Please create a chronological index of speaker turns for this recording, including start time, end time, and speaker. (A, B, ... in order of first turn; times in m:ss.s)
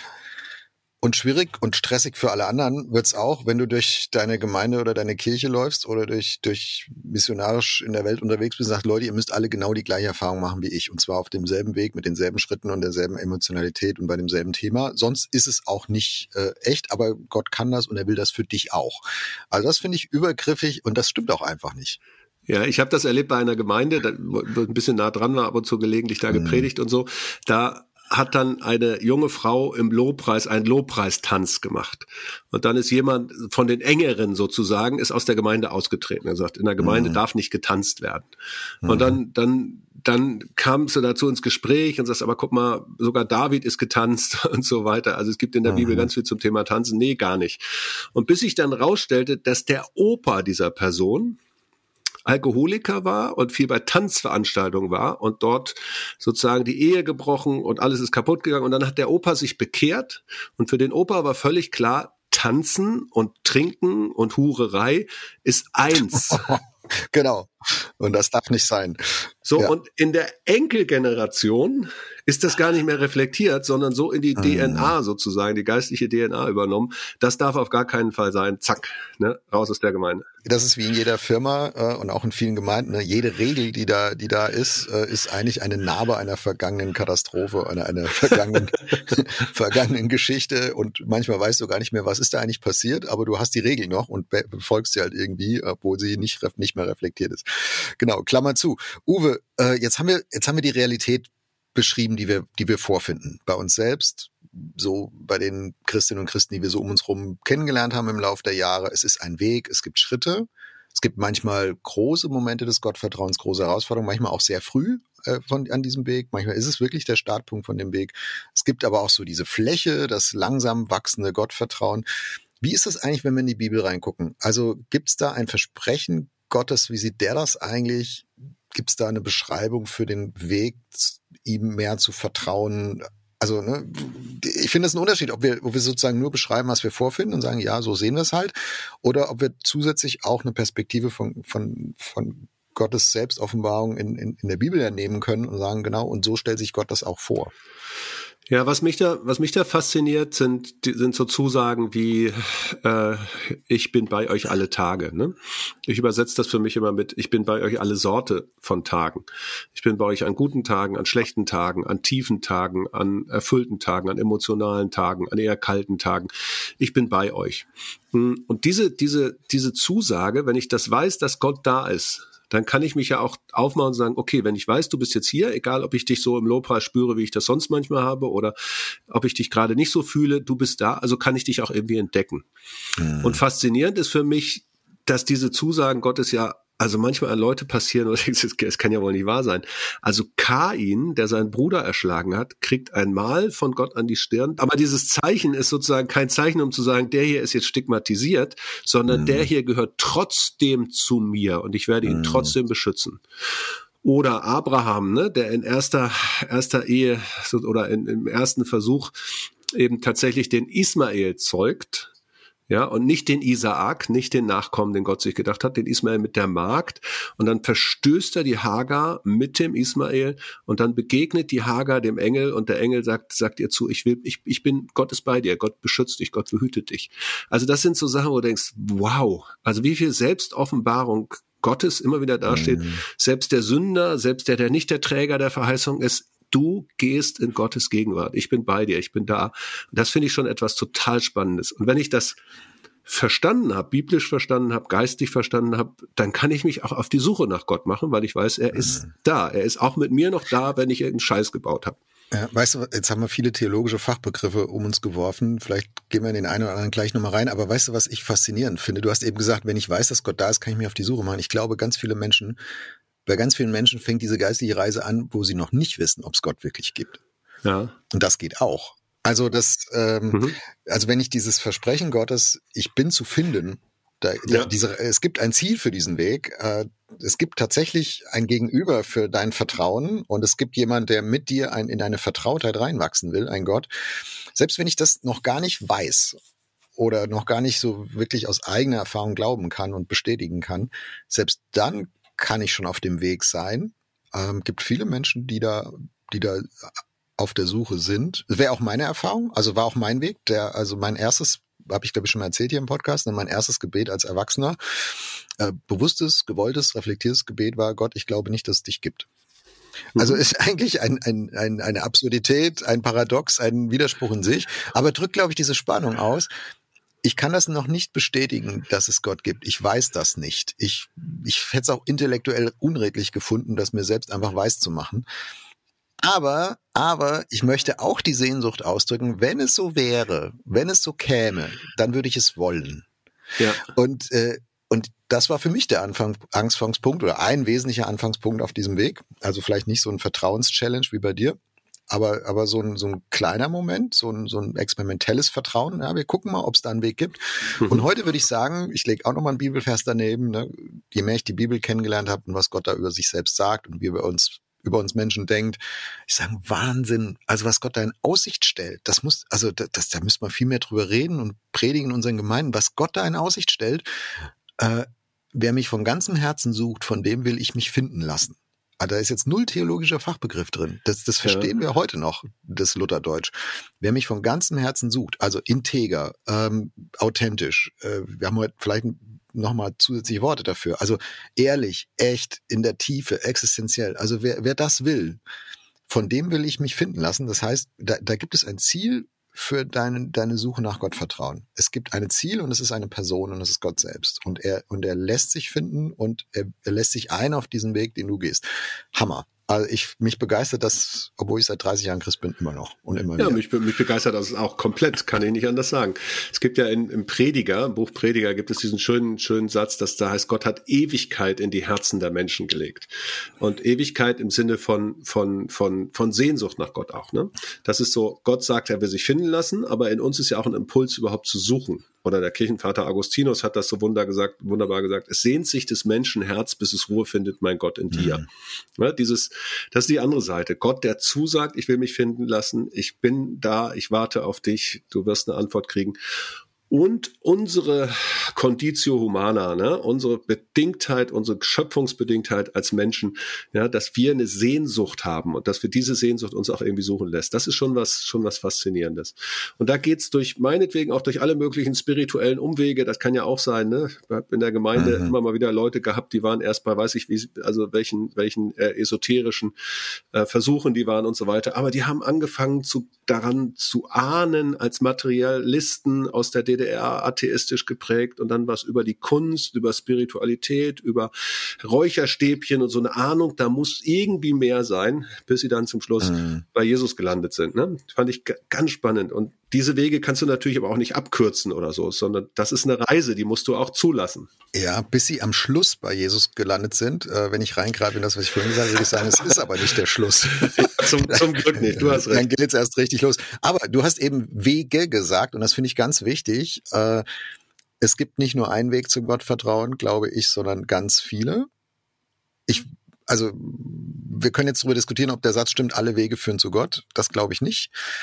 0:01.0-0:22.0 A
0:22.5-0:38.3 B
0:26.3-0:26.7 A
0:36.8-0:37.2 A
0:38.8-0:39.2 A
0:38.9-0:47.6 B
0:45.7-0:46.1 A
0:48.1-0:51.4 B
0:52.3-1:06.6 B
1:06.3-1:09.7 A
1:09.4-1:20.3 B
1:14.4-1:14.9 A
1:20.4-2:02.1 A
2:02.6-2:27.5 A
2:28.5-2:58.6 B
2:59.1-3:02.5 B
3:03.0-3:03.4 A
3:03.2-3:23.2 B
3:19.1-3:19.5 A
3:22.1-3:22.5 A
3:24.0-3:29.1 B
3:29.7-3:32.1 B
3:32.7-4:02.4 B
3:52.5-3:53.0 A
4:03.1-4:12.0 B
4:12.3-4:22.6 A
4:23.3-4:27.2 A
4:27.6-4:28.0 B
4:28.1-4:43.9 A
4:30.3-4:30.6 B
4:44.5-4:46.4 A
4:47.0-5:09.3 A
5:10.2-5:10.4 B
5:10.2-5:16.5 A
5:17.2-5:25.2 A
5:26.2-5:33.1 A
5:33.6-5:33.9 B
5:33.9-5:41.6 A
5:42.1-6:04.1 A
5:47.8-5:48.0 B
6:04.8-6:25.4 A
6:11.4-6:11.7 B
6:26.1-6:43.6 A
6:43.4-6:53.1 B
6:53.6-7:08.5 B
7:08.1-7:08.4 A
7:09.0-7:16.2 B
7:16.9-7:39.7 B
7:35.0-7:35.3 A
7:40.3-8:04.5 B
7:56.2-7:56.6 A
8:04.7-8:17.2 A
8:10.6-8:12.5 B
8:18.0-8:21.7 A
8:22.7-8:27.9 A